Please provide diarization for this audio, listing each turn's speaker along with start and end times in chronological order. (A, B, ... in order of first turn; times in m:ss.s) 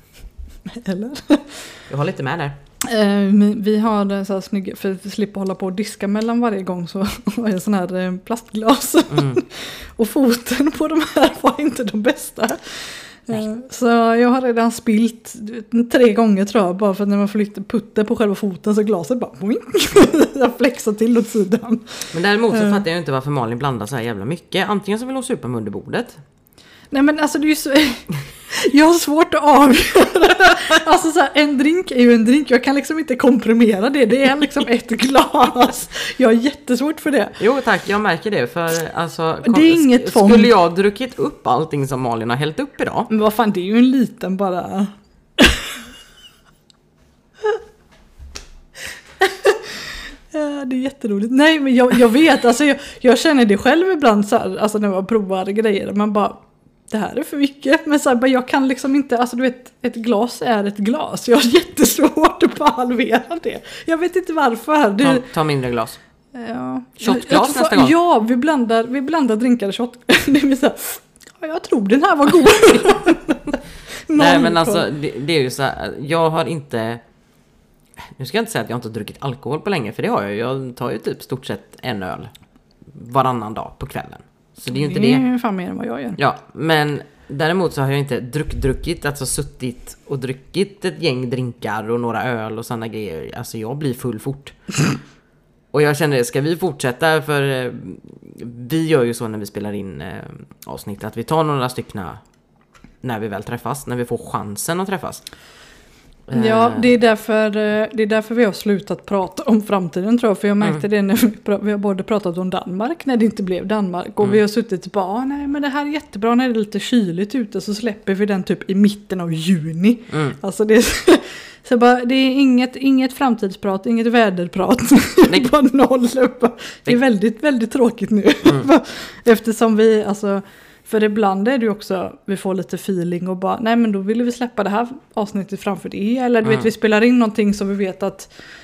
0:00.7-0:01.7 A
0:01.9-0:02.6 B
0:02.8-0:22.8 A
0:22.1-0:26.2 B
0:26.9-0:37.4 A
0:37.4-0:43.1 B
0:39.4-0:40.5 A
0:43.1-0:45.8 A
0:49.2-1:05.2 A
1:05.0-1:06.0 B
1:06.3-1:14.8 A
1:07.0-1:07.9 B
1:14.1-1:17.0 B
1:18.0-1:22.3 B
1:22.9-1:25.2 B
1:24.7-1:26.2 A
1:26.2-1:34.6 B
1:35.7-1:42.2 B
1:43.0-1:45.2 B
1:46.3-1:46.9 B
1:46.3-2:18.3 A